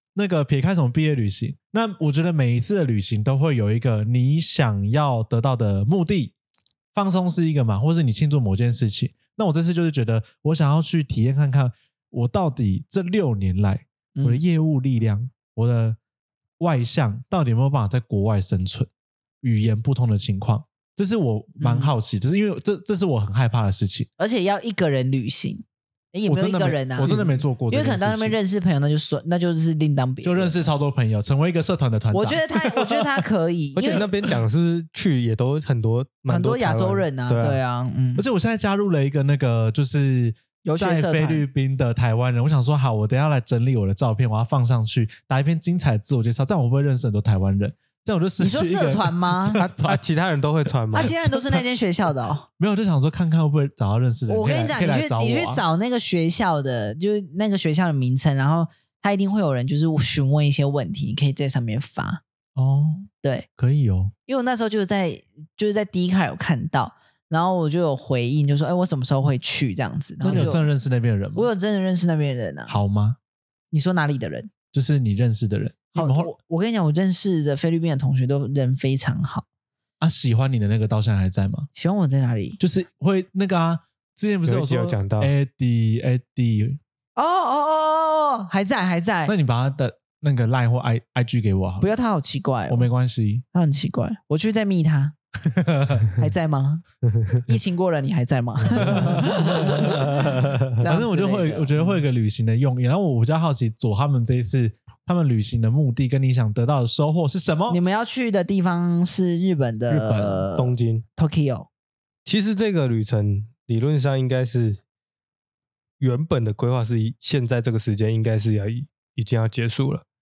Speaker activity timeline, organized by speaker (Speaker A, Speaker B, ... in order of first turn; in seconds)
Speaker A: 0.1-6.3, 6.9-16.0, 16.6-18.9, 19.4-24.1, 26.3-28.4, 30.2-33.3, 38.1-50.0, 51.0-51.6, 52.6-55.6, 62.5-64.1, 70.2-71.5, 72.7-73.2, 74.7-76.3, 80.0-81.7, 82.6-86.8, 89.3-91.9, 92.7-93.4, 95.4-96.1, 98.8-100.0, 100.8-107.8, 109.9-110.4
Speaker B: 14.2-14.4, 21.6-21.9, 24.2-30.6, 32.1-34.0, 36.3-38.2, 40.6-41.5, 48.4-49.6, 50.9-52.5, 54.3-62.2, 64.3-70.7, 71.3-72.8, 73.7-74.5, 75.9-79.4, 81.7-82.6, 87.2-89.3, 91.8-92.9, 93.5-95.1, 96.2-96.8, 97.4-102.0, 107.7-111.7
Speaker C: 33.8-37.6, 49.6-51.2, 84.4-85.3, 97.2-97.4, 100.2-100.6, 110.5-111.0, 112.2-114.8, 116.0-120.0